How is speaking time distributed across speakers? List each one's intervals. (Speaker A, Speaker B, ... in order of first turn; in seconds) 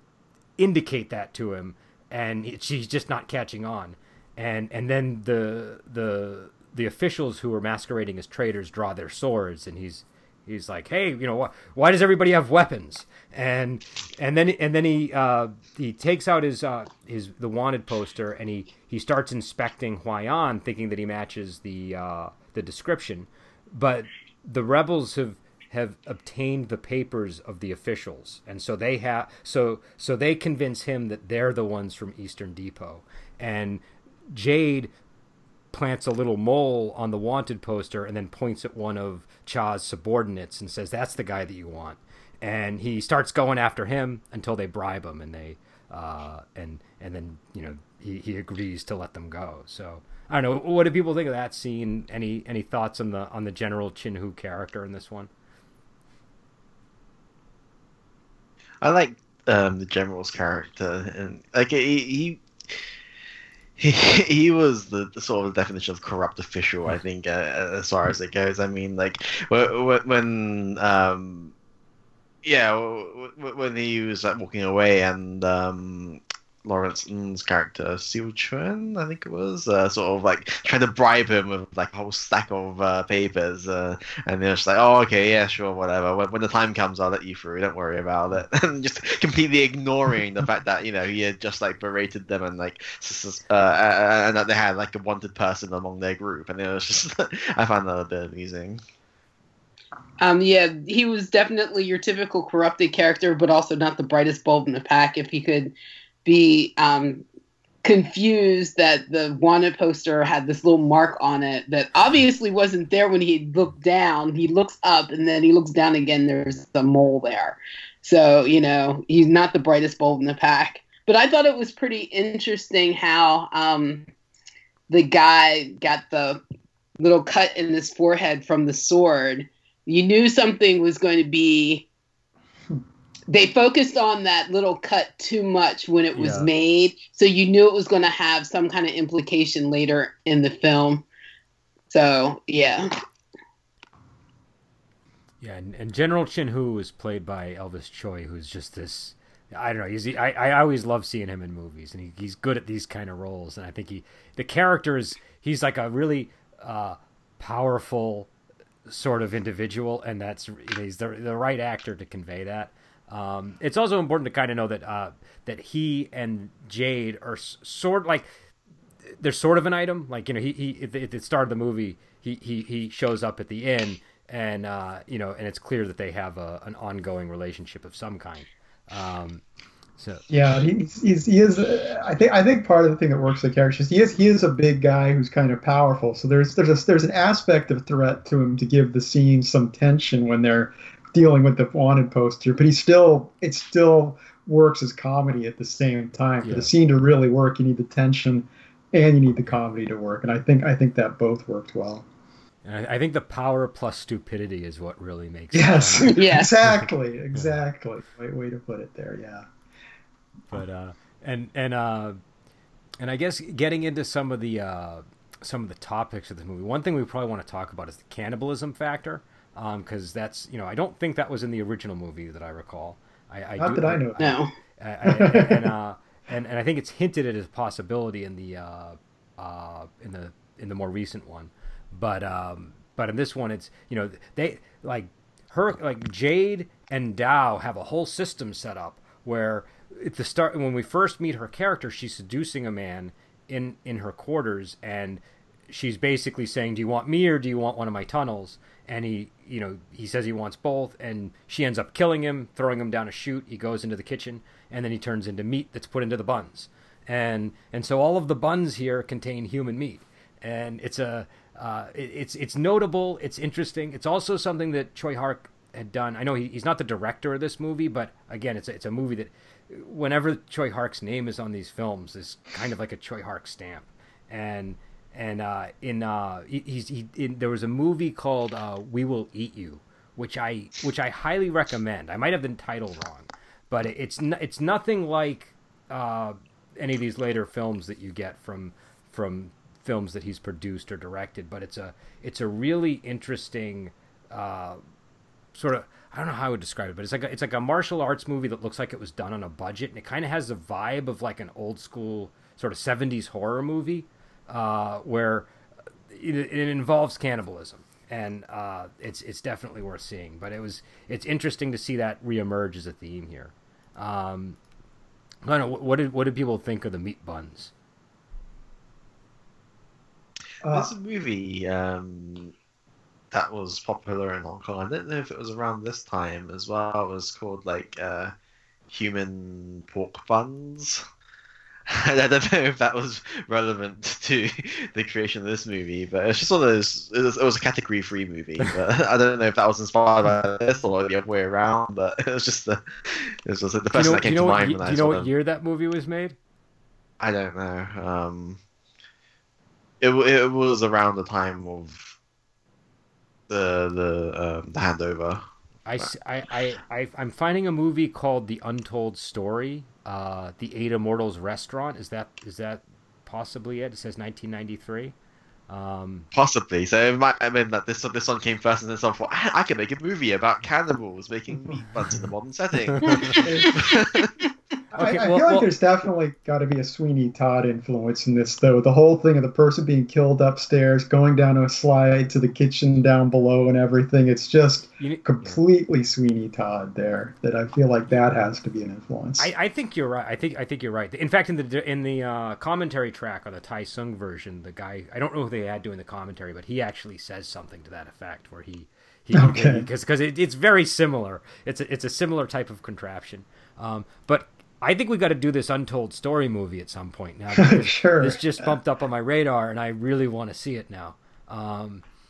Speaker A: 0.6-34.9, 35.7-55.3, 136.1-136.5, 145.4-158.3, 158.9-168.3, 169.1-179.4, 180.0-180.2, 196.4-196.7, 202.7-207.6, 210.5-212.2, 213.0-294.8, 295.5-305.5, 306.1-314.6, 315.5-317.7, 343.9-346.4, 355.9-365.1, 365.7-366.3, 372.9-373.4, 374.9-375.7, 385.0-385.2, 389.4-412.0
Speaker B: 58.8-62.8, 63.8-71.5, 72.4-98.8, 320.7-322.5, 323.3-328.3, 328.9-331.0, 331.9-345.3, 347.2-348.6, 350.0-352.2, 353.5-355.4, 366.3-374.3
Speaker C: 100.2-105.7, 106.2-107.2, 107.8-124.1, 124.9-126.4, 127.0-131.9, 133.3-141.1, 141.9-142.9, 206.1-206.5, 224.2-224.5
Speaker D: 180.3-202.1, 205.5-209.5, 223.6-224.2, 225.0-225.7, 320.6-320.9, 373.4-373.8, 375.0-389.5, 399.3-399.9, 407.6-408.7